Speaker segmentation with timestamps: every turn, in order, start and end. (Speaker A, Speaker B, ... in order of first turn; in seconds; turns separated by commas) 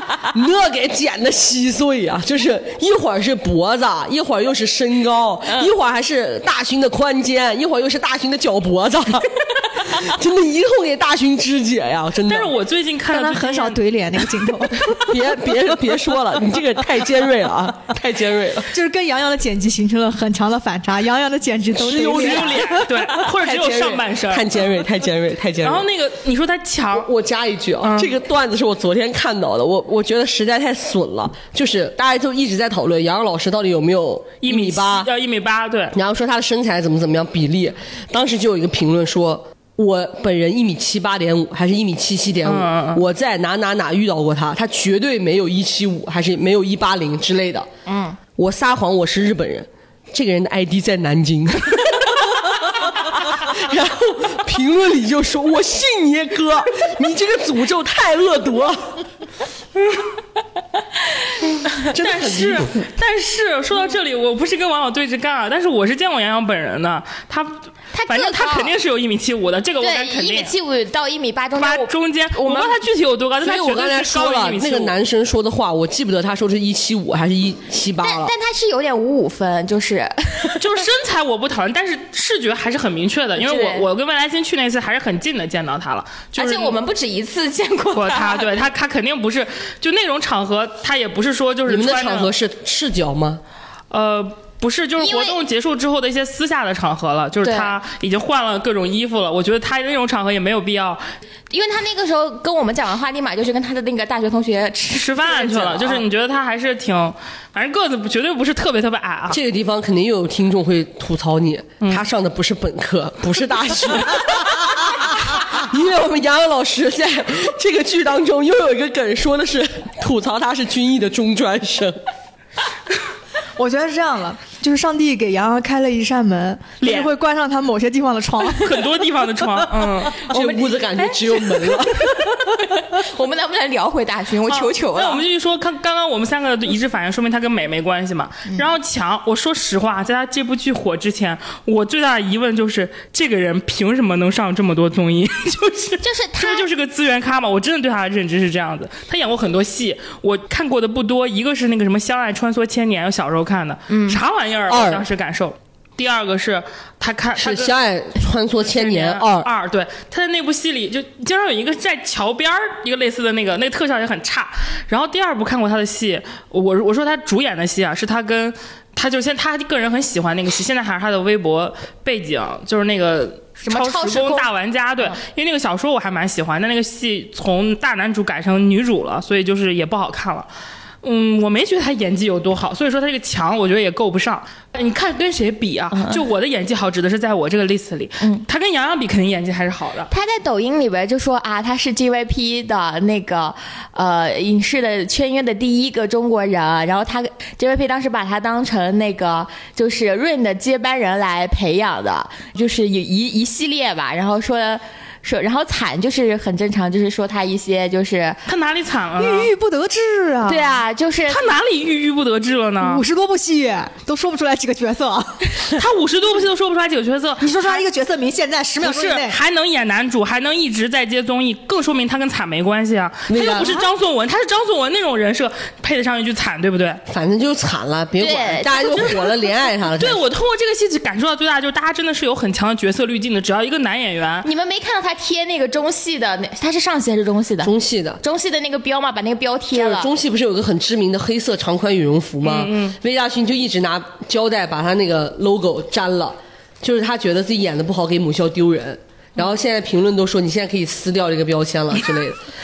Speaker A: 0.2-12.5, Speaker B: 12.3-13.8, Speaker C: 13.1-15.6, Speaker A: 14.9-18.7, Speaker C: 18.7-22.9, Speaker A: 21.7-25.9, Speaker B: 21.8-24.5, Speaker B: 25.6-27.1, Speaker A: 26.9-35.1, Speaker B: 27.8-28.1, Speaker B: 34.4-35.9, Speaker A: 35.9-47.7, Speaker B: 42.4-43.0, Speaker D: 47.9-48.2, Speaker A: 48.4-59.0, Speaker B: 61.8-70.5, Speaker A: 61.9-62.9, Speaker D: 67.9-68.7, Speaker D: 69.8-72.8, Speaker B: 71.6-75.0, Speaker A: 73.4-78.3, Speaker D: 78.0-80.7, Speaker B: 80.6-86.8, Speaker D: 83.4-83.8, Speaker D: 86.3-88.6, Speaker B: 87.9-92.3, Speaker A: 91.7-93.4, Speaker B: 93.9-101.0, Speaker D: 95.0-95.4, Speaker D: 97.4-97.8, Speaker D: 101.5-106.0, Speaker B: 104.9-109.4, Speaker A: 109.3-122.0, Speaker C: 123.6-130.5, Speaker B: 126.8-127.1, Speaker B: 128.4-130.2, Speaker D: 130.2-135.2, Speaker A: 130.3-132.2, Speaker B: 134.5-157.7, Speaker D: 146.0-146.7, Speaker D: 153.9-154.2, Speaker A: 154.7-155.1, Speaker A: 157.4-159.5, Speaker B: 158.7-180.5, Speaker D: 173.6-174.5, Speaker B: 181.0-190.1, Speaker D: 185.9-186.2, Speaker D: 190.1-208.4, Speaker B: 208.5-209.5, Speaker C: 209.2-210.8, Speaker D: 210.4-211.4, Speaker B: 211.3-213.0, Speaker C: 212.8-215.6, Speaker B: 215.7-217.9, Speaker C: 217.4-219.4, Speaker B: 218.8-227.0, Speaker A: 223.3-223.8, Speaker A: 227.1-230.2, Speaker D: 228.2-229.2, Speaker B: 230.0-234.5, Speaker D: 234.4-240.1, Speaker A: 237.6-238.2, Speaker A: 239.7-252.4, Speaker B: 242.4-243.0